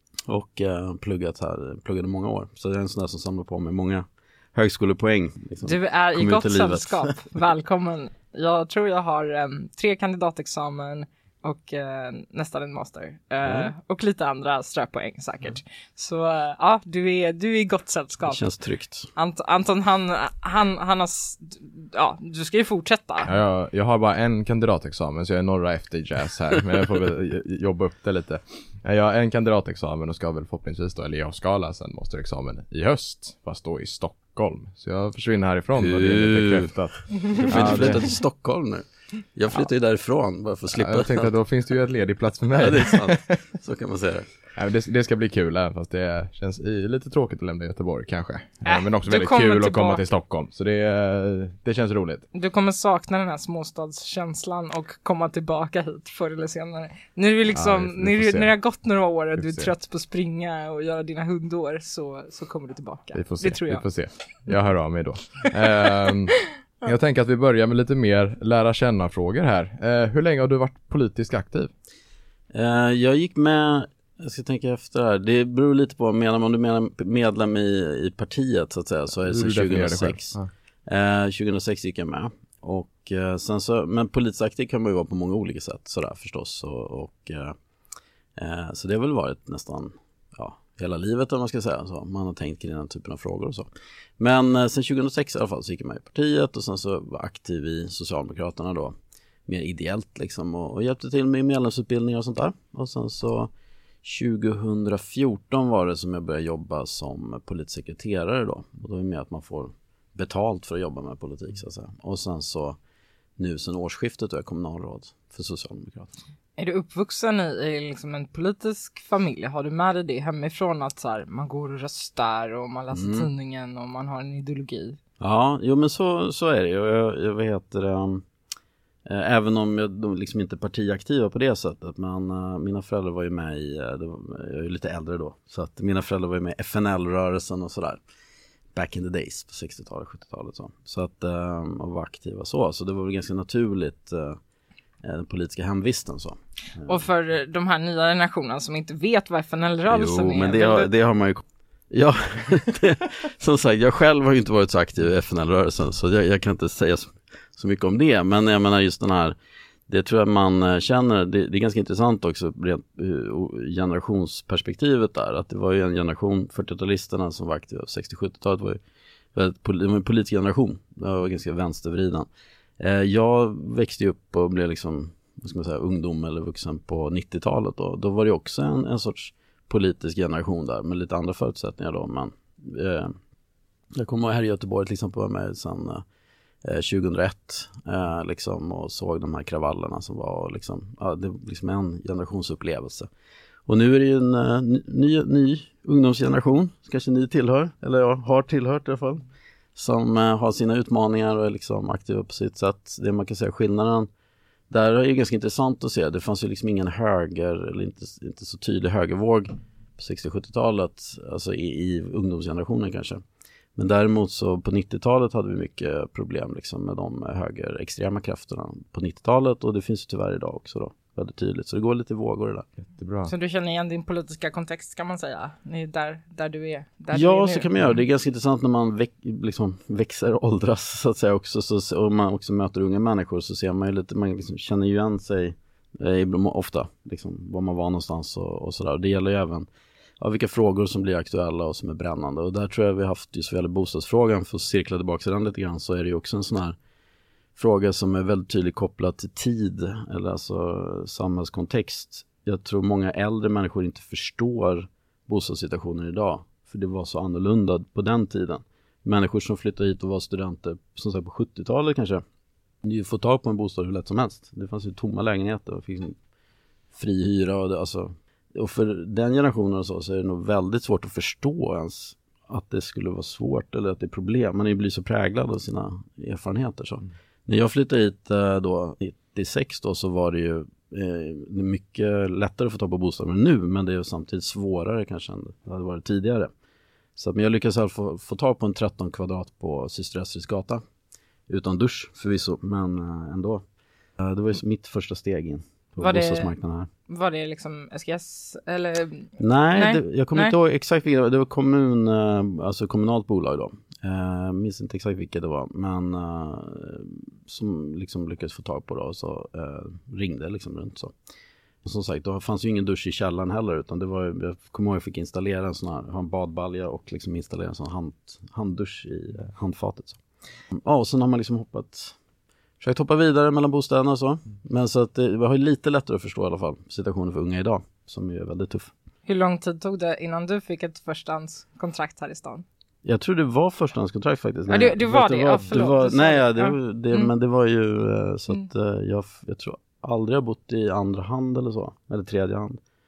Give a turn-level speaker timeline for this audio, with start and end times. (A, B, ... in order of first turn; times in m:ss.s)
0:00.3-0:07.3 A
0:05.6-0:18.5 B
0:13.4-0:13.7 A
0:18.2-0:19.1 A
0:19.1-0:23.3 B
0:23.2-0:38.1 C
0:35.8-0:41.4 A
0:40.7-0:43.4 C
0:42.6-0:44.3 A
0:44.6-0:52.2 C
0:48.6-0:50.0 B
0:52.3-1:03.8 B
0:57.5-0:58.5 C
0:59.4-0:59.7 C
1:03.1-1:11.7 C
1:12.5-1:27.6 A
1:19.3-1:20.5 C
1:28.4-1:43.5 A
1:44.0-1:52.8 A
1:53.4-1:56.2 A
1:56.6-2:05.0 B
2:02.9-2:03.3 A
2:05.2-2:08.2 A
2:09.1-2:18.0 A
2:18.7-2:24.4 A
2:25.0-2:27.0 A
2:26.9-2:30.9 B
2:29.9-2:39.4 A
2:39.9-2:48.8 A
2:49.4-2:52.3 A
2:52.8-3:03.2 A
3:04.0-3:06.0 A
3:06.6-3:13.1 A
3:13.7-3:24.1 A
3:24.7-3:33.2 A
3:33.8-3:42.7 A
3:42.8-3:43.3 C
3:43.2-3:47.8 B
3:47.1-3:59.7 A
4:00.2-4:06.8 A
4:07.6-4:22.2 A
4:22.8-4:26.2 A
4:26.9-4:46.5 A
4:47.2-4:50.8 A
4:51.5-4:53.6 A
4:54.2-4:56.9 A
4:56.0-4:56.5 B
4:57.1-5:00.5 B
4:59.4-5:11.1 A
5:11.8-5:20.2 A
5:20.8-5:22.2 A
5:22.8-5:28.9 A
5:29.2-5:32.6 B
5:33.0-5:42.8 A
5:34.7-5:37.3 B